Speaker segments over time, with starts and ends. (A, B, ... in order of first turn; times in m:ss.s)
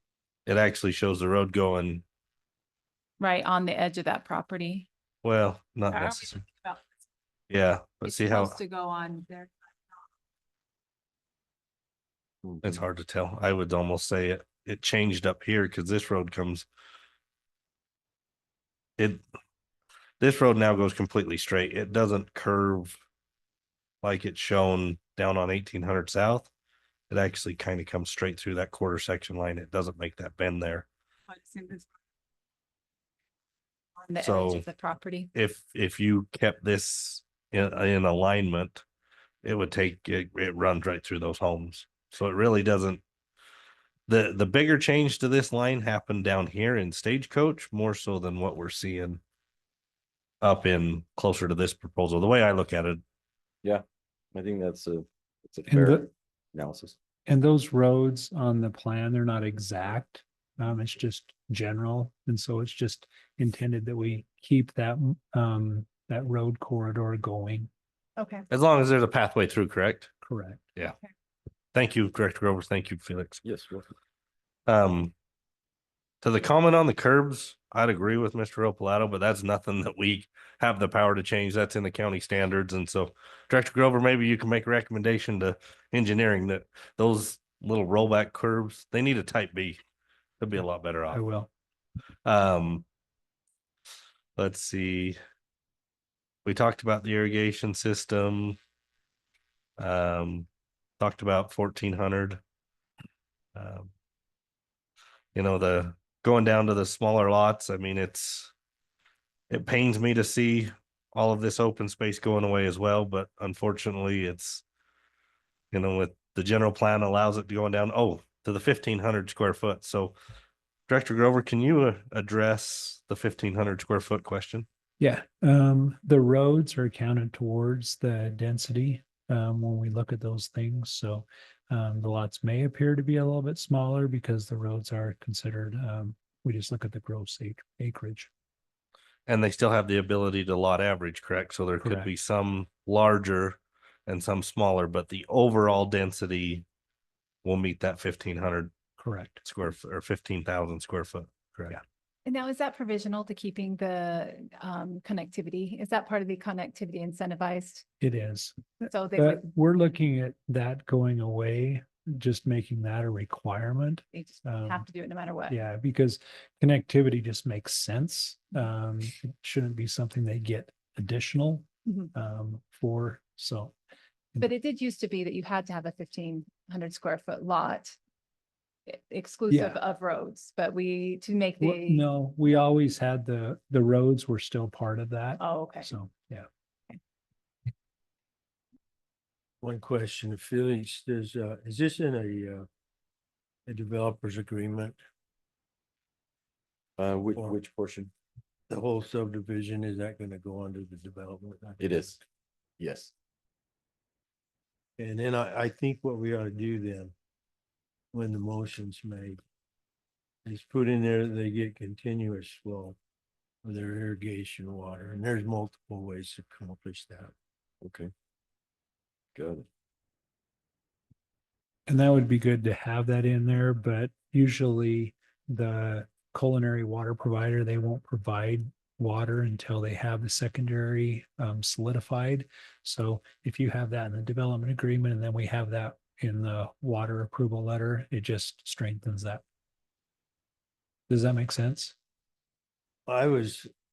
0:00.5-0:02.0 A
0:03.2-0:04.9 B
0:05.2-0:06.4 A
0:05.9-0:06.8 B
0:07.5-0:08.6 A
0:08.0-0:09.5 B
0:12.4-0:12.8 C
0:12.6-0:16.7 A
0:19.0-0:19.2 A
0:20.2-0:23.0 A
0:24.0-0:26.5 A
0:27.1-0:30.9 A
0:31.3-0:31.9 B
0:34.0-0:35.3 B
0:34.2-0:34.7 A
0:35.3-0:38.8 A
0:39.4-0:43.0 A
0:44.1-0:49.2 A
0:50.4-0:53.0 A
0:53.6-0:57.0 C
0:55.7-0:56.1 D
0:57.3-1:07.7 D
1:08.2-1:08.4 B
1:08.5-1:10.1 A
1:10.2-1:10.6 D
1:11.7-1:13.4 A
1:13.4-1:13.9 C
1:14.7-1:15.1 A
1:16.2-1:29.8 A
1:30.4-1:31.2 A
1:31.1-1:31.5 D
1:32.2-1:32.8 A
1:34.4-1:35.2 A
1:36.4-1:38.6 A
1:39.8-1:40.5 A
1:41.0-1:42.4 A
1:43.6-1:43.9 A
1:45.4-1:48.5 A
1:49.5-1:54.6 A
1:55.7-2:00.2 A
2:00.9-2:04.7 A
2:05.0-2:18.3 D
2:19.3-2:26.7 A
2:21.8-2:22.1 D
2:27.4-2:28.7 A
2:29.0-2:29.4 D
2:29.4-2:31.8 A
2:32.3-2:37.9 B
2:38.0-2:44.8 D
2:38.9-2:39.4 B
2:44.1-2:45.6 B
2:45.5-2:53.8 D
2:54.4-2:58.0 B
2:58.9-3:02.1 B
2:59.5-2:59.8 D
3:01.6-3:06.5 D
3:05.4-3:05.9 B
3:09.6-3:12.7 E
3:13.7-3:15.0 E
3:17.0-3:18.1 C
3:18.7-3:22.0 E
3:21.8-3:22.2 C
3:22.8-3:23.1 C
3:25.0-3:27.1 E
3:28.1-3:29.4 E
3:30.4-3:33.0 E
3:33.6-3:37.3 E
3:37.8-3:38.1 C
3:39.4-3:39.7 C
3:41.9-3:59.4 D
4:01.1-4:02.0 D
4:03.1-4:03.7 E